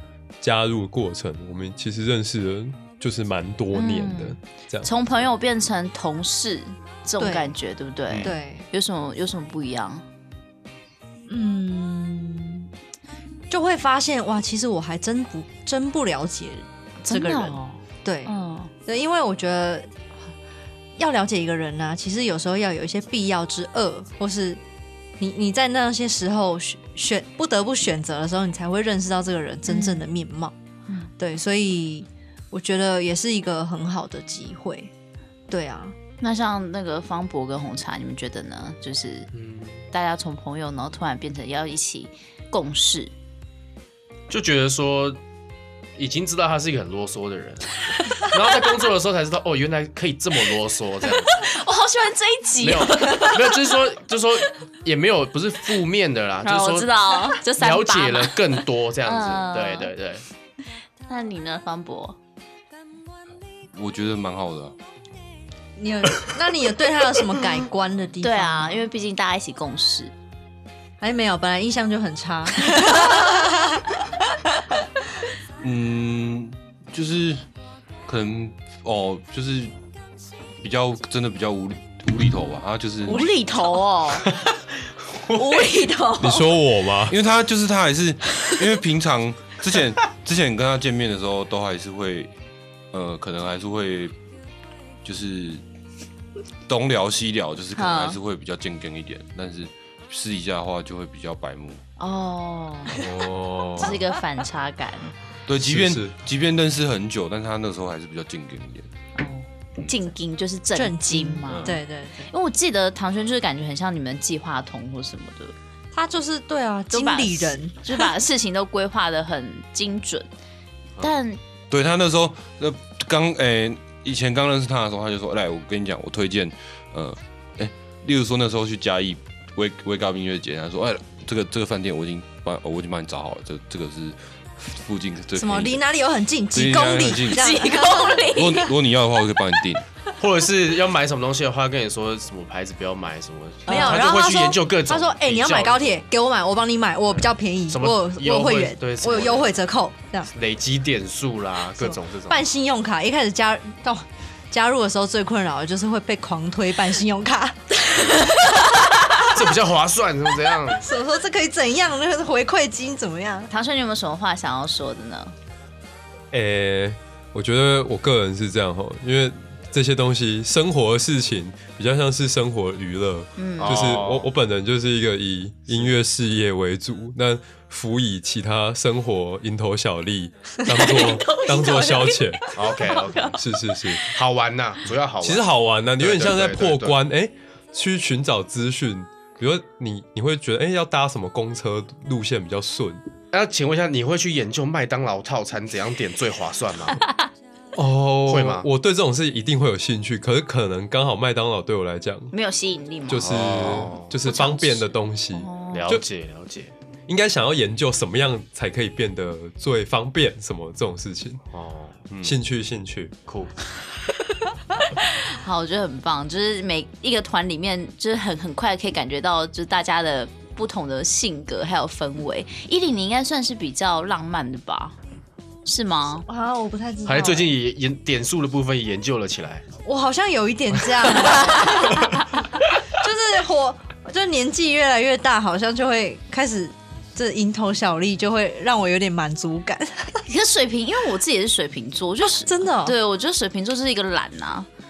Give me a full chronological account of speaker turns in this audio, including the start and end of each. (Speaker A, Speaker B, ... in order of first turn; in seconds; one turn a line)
Speaker A: 0.4-4.9
Speaker B: 3.7-10.1
Speaker C: 7.2-7.5
Speaker C: 8.2-8.7
Speaker C: 11.3-12.7
Speaker C: 13.5-18.4
Speaker B: 17.0-18.7
Speaker C: 18.9-19.9
Speaker C: 21.0-24.6
Speaker C: 25.2-30.6
Speaker B: 29.7-30.0
Speaker C: 31.2-34.9
Speaker C: 35.5-36.0
Speaker B: 36.2-39.3
Speaker D: 39.3-39.9
Speaker B: 39.9-43.1
Speaker D: 44.3-45.2
Speaker D: 46.0-51.4
Speaker B: 51.3-53.8
Speaker D: 52.6-56.9
Speaker B: 56.4-59.9
Speaker D: 57.5-60.2
Speaker B: 61.1-62.2
Speaker E: 63.7-64.8
Speaker C: 65.8-68.9
Speaker B: 68.2-70.1
Speaker C: 71.0-74.0
Speaker B: 72.8-73.1
Speaker E: 75.6-77.5
Speaker E: 78.1-79.7
Speaker E: 80.6-83.2
Speaker B: 83.1-84.3
Speaker B: 85.3-86.5
Speaker A: 86.2-87.2
Speaker E: 87.1-92.3
Speaker E: 92.9-94.1
Speaker E: 95.0-95.6
Speaker E: 96.7-101.8
Speaker B: 97.8-98.2
Speaker B: 102.0-103.0
Speaker A: 102.9-104.0
Speaker B: 103.8-105.1
Speaker E: 105.5-108.9
Speaker A: 105.6-106.1
Speaker B: 109.2-115.5
Speaker C: 110.8-112.3
Speaker E: 111.5-111.8
Speaker C: 115.9-118.1
Speaker B: 116.9-120.3
Speaker B: 121.0-121.4
Speaker E: 121.7-135.8
Speaker C: 135.3-138.3
Speaker E: 136.5-137.7
Speaker B: 137.3-138.7
Speaker E: 138.2-139.8
Speaker D: 140.2-145.9
Speaker C: 143.7-150.3
Speaker B: 143.7-144.0
Speaker D: 147.7-149.5
Speaker D: 150.3-152.4
Speaker C: 151.8-157.6
Speaker B: 157.8-159.3
Speaker D: 159.3-160.8
Speaker C: 160.8-163.5
Speaker B: 163.5-165.3
Speaker A: 166.3-182.6
Speaker B: 173.4-173.8
Speaker D: 173.6-174.3
Speaker B: 180.7-183.4
Speaker D: 182.6-183.4
Speaker A: 183.4-184.1
Speaker D: 184.0-187.0
Speaker A: 185.2-193.0
Speaker D: 193.3-197.0
Speaker A: 197.8-202.3
Speaker D: 198.3-198.7
Speaker B: 202.3-205.9
Speaker A: 203.1-206.0
Speaker D: 203.1-204.1
Speaker D: 205.7-206.7
Speaker A: 207.1-211.4
Speaker D: 211.5-212.0
Speaker A: 212.2-213.2
Speaker D: 213.3-213.5
Speaker B: 214.8-225.0
Speaker B: 225.7-226.3
Speaker C: 226.3-227.6
Speaker D: 227.1-229.7
Speaker C: 229.8-232.2
Speaker B: 231.6-232.0
Speaker C: 232.9-240.2
Speaker B: 240.3-244.7
Speaker C: 242.2-243.0